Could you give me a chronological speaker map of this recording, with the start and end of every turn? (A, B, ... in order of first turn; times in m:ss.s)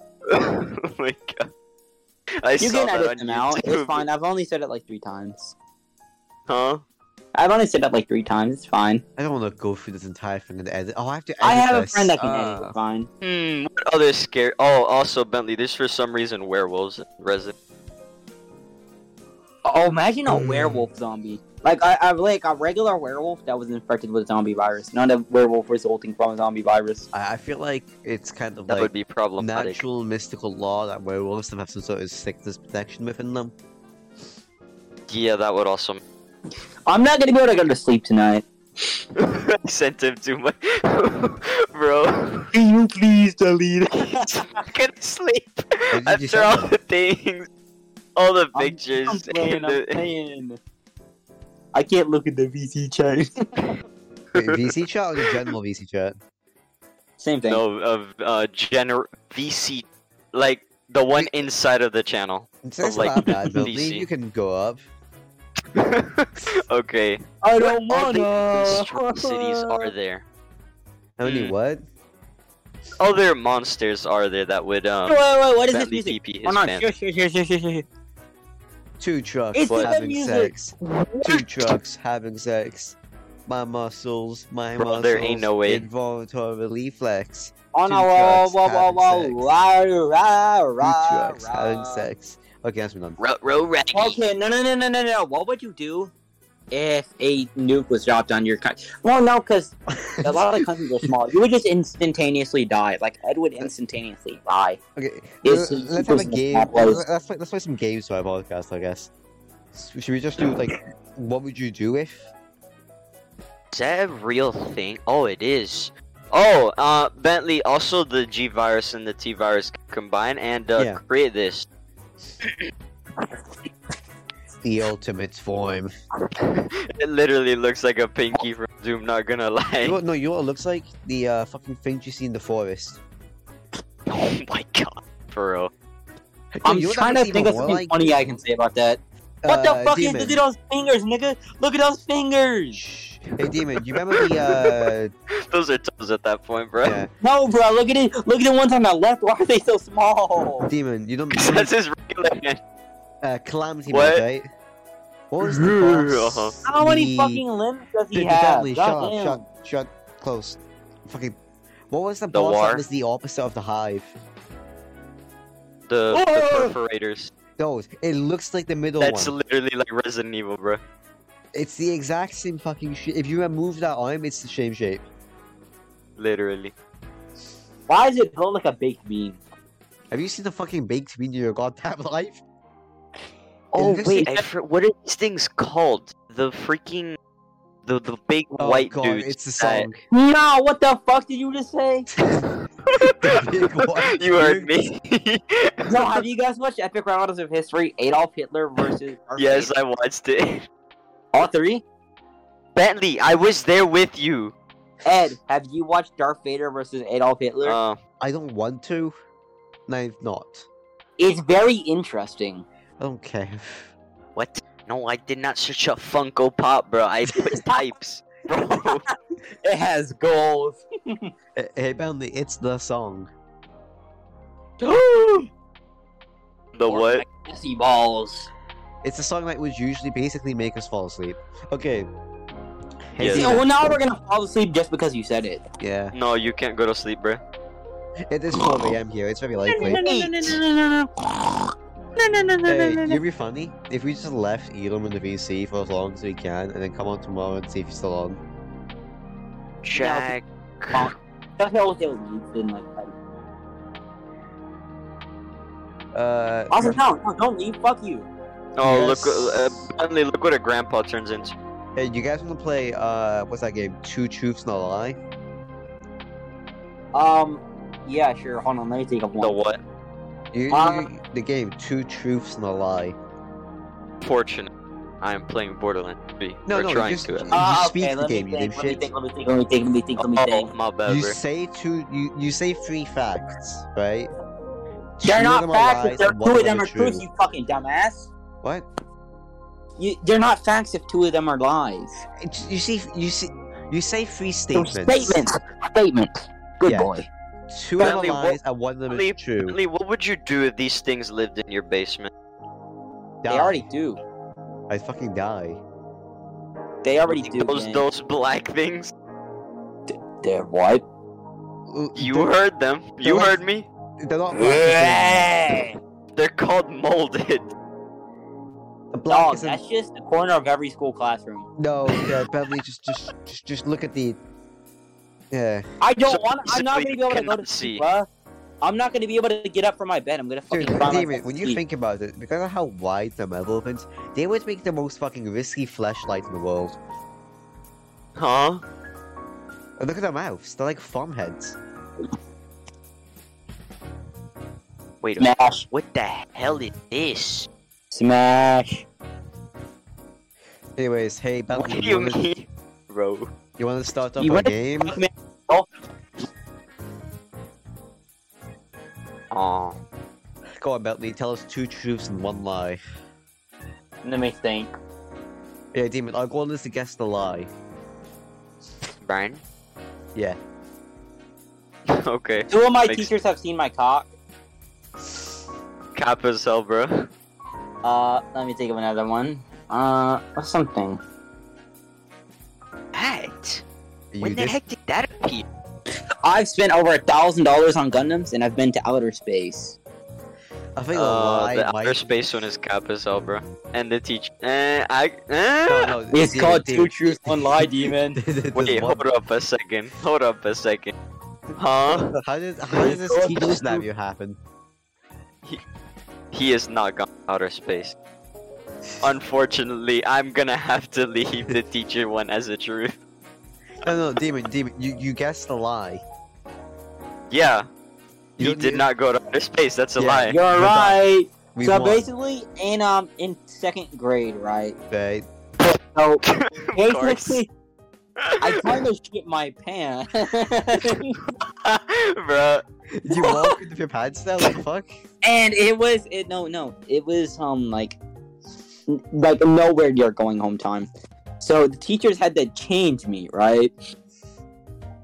0:00.3-0:01.5 A
0:02.4-0:04.1 A
0:02.6-0:05.6 B
0:06.5-0:06.8 A
0:07.4-0:09.0 B
0:09.2-0:12.8 C
0:11.4-0:13.1 B
0:13.2-0:17.5 A
0:19.6-0:27.1 B
0:20.3-0:20.9 C
0:27.1-0:33.5 C
0:28.7-0:29.8 A
0:35.1-0:36.0 A
0:36.9-0:38.5 B
0:39.2-0:42.5 A
0:42.5-0:44.6 B
0:44.0-0:47.5 A
0:45.9-0:46.7 C
0:48.2-0:50.1 A
0:48.5-0:50.6 B
0:51.7-0:53.5 B
0:54.4-0:55.5 A
0:54.4-0:56.2 C
0:57.2-0:57.6 B
0:57.5-1:04.1 A
1:02.6-1:04.8 C
1:05.7-1:10.2 A
1:07.4-1:09.9 B
1:11.2-1:11.8 C
1:11.2-1:11.5 A
1:13.0-1:16.9 A
1:15.1-1:17.9 B
1:19.0-1:29.5 C
1:19.5-1:21.5 B
1:24.8-1:25.9 A
1:27.7-1:32.1 B
1:30.8-1:33.2 C
1:33.2-1:34.2 A
1:33.9-1:36.1 B
1:36.7-1:44.8 B
1:39.9-1:41.1 C
1:45.0-1:49.1 C
1:45.4-1:47.0 B
1:49.7-1:52.3 C
1:53.7-2:01.7 A
2:04.6-2:05.9 C
2:06.4-2:10.0 A
2:09.8-2:13.0 C
2:14.1-2:15.7 A
2:16.6-2:18.4 C
2:16.6-2:22.8 B
2:19.4-2:20.4 C
2:22.7-2:25.1 C
2:23.8-2:24.9 A
2:25.5-2:27.0 A
2:26.8-2:27.1 C
2:27.2-2:30.7 B
2:30.6-2:31.7 C
2:31.3-2:32.6 A
2:33.2-2:34.5 C
2:33.9-2:34.2 A
2:35.3-2:37.4 C
2:35.4-2:36.6 A
2:36.6-2:39.4 B
2:38.1-2:41.4 C
2:41.9-2:44.2 C
2:42.3-2:42.8 A
2:45.9-2:47.3 A
2:46.1-2:46.7 B
2:47.6-2:49.3 C
2:49.0-2:50.8 A
2:51.5-2:55.0 C
2:56.2-2:56.7 A
2:57.9-2:59.4 B
3:00.1-3:02.4 C
3:03.7-3:07.2 A
3:03.8-3:04.4 C
3:04.1-3:04.4 B
3:07.9-3:09.9 A
3:08.6-3:10.0 C
3:10.1-3:12.1 B
3:12.1-3:14.7 C
3:12.9-3:16.2 A
3:15.8-3:19.7 B
3:19.4-3:20.7 A
3:21.3-3:21.8 B
3:22.8-3:24.5 A
3:25.0-3:27.8 B
3:27.6-3:28.0 A
3:28.2-3:29.2 C
3:29.9-3:30.7 C
3:31.2-3:32.6 B
3:33.0-3:33.9 C
3:34.4-3:39.0 A
3:37.4-3:37.8 B
3:39.6-3:41.3 B
3:41.6-3:43.3 C
3:44.8-3:45.5 B
3:46.7-3:47.2 A
3:46.9-3:48.5 B
3:49.0-3:52.1 C
3:53.2-3:53.6 A
3:53.2-3:54.0 C
3:53.3-3:55.6 B
3:55.8-3:56.2 C
3:56.1-3:57.4 A
3:58.3-4:00.0 C
3:58.6-3:58.9 B
3:59.7-4:03.2 B
3:59.8-4:00.6 A
4:02.7-4:08.4 C
4:09.8-4:11.1 A
4:10.0-4:10.4 B
4:10.9-4:13.1 B
4:16.1-4:17.0 C
4:16.7-4:18.3 B
4:18.8-4:21.6 A
4:18.8-4:19.8 C
4:22.0-4:25.2 C
4:27.1-4:29.6 B
4:29.4-4:29.8 A
4:30.5-4:33.2 C
4:30.7-4:31.1 B
4:34.2-4:34.7 A
4:35.2-4:37.6 A
4:36.7-4:39.0 C
4:37.5-4:40.7 B
4:40.2-4:41.4 A
4:41.0-4:44.3 C
4:45.2-4:47.2 C
4:45.2-4:48.3 B
4:48.6-4:48.9 C
4:50.0-4:52.2 B
4:52.4-4:55.5 C
4:54.7-4:57.3 B
4:56.8-4:57.2 C
4:57.7-4:59.8 C
4:58.0-4:58.6 A
4:58.0-4:58.3 B
4:59.1-5:02.3 A
5:03.4-5:03.9 C
5:03.5-5:04.2 B
5:04.9-5:05.8 C
5:07.0-5:08.0 B
5:07.3-5:09.1 A
5:10.1-5:11.0 B
5:11.9-5:12.5 C
5:12.2-5:13.9 A
5:13.2-5:13.6 C
5:14.2-5:15.7 C
5:14.5-5:16.0 B
5:16.4-5:17.7 A
5:19.1-5:19.8 C
5:19.3-5:21.7 B
5:21.8-5:24.4 C
5:25.5-5:25.9 C
5:26.0-5:28.3 B
5:26.3-5:28.0 A
5:28.8-5:31.8 B
5:30.7-5:37.0 C
5:38.4-5:38.8 A
5:40.0-5:41.8 C
5:45.2-5:47.7 A
5:45.4-5:45.9 B
5:48.1-5:49.1 B
5:51.0-5:52.4 C
5:51.7-5:53.5 A
5:53.8-5:55.2 C
5:54.4-5:55.9 B
5:59.5-6:00.0 A
6:00.8-6:03.0 C
6:04.2-6:04.9 B
6:05.9-6:07.7 C
6:09.2-6:09.6 A
6:12.1-6:13.3 A
6:12.7-6:14.3 B
6:16.2-6:17.3 A
6:18.0-6:21.2 B
6:23.1-6:23.8 A
6:24.3-6:24.8 C
6:24.4-6:25.6 A
6:26.4-6:30.0 B
6:31.0-6:32.4 C
6:31.2-6:36.2 A
6:35.9-6:39.2 C
6:36.3-6:38.4 B
6:38.8-6:41.1 A
6:41.8-6:42.4 A
6:42.1-6:44.6 C
6:43.0-6:44.0 B
6:43.1-6:43.8 A
6:46.5-6:48.2 A
6:49.2-6:53.1 A
6:54.0-6:56.2 C
6:57.5-6:57.9 A
6:58.6-6:59.0 C
6:58.6-7:00.6 A
7:00.2-7:01.2 C
7:00.5-7:05.0 B
7:01.7-7:02.3 C
7:05.1-7:05.5 C
7:06.1-7:06.4 B
7:06.5-7:07.6 A
7:07.0-7:07.7 B
7:08.4-7:09.0 A
7:08.6-7:11.4 B
7:11.6-7:12.8 A
7:13.2-7:15.1 C
7:13.4-7:13.7 B
7:15.4-7:18.2 B
7:19.1-7:21.1 B
7:21.6-7:23.9 B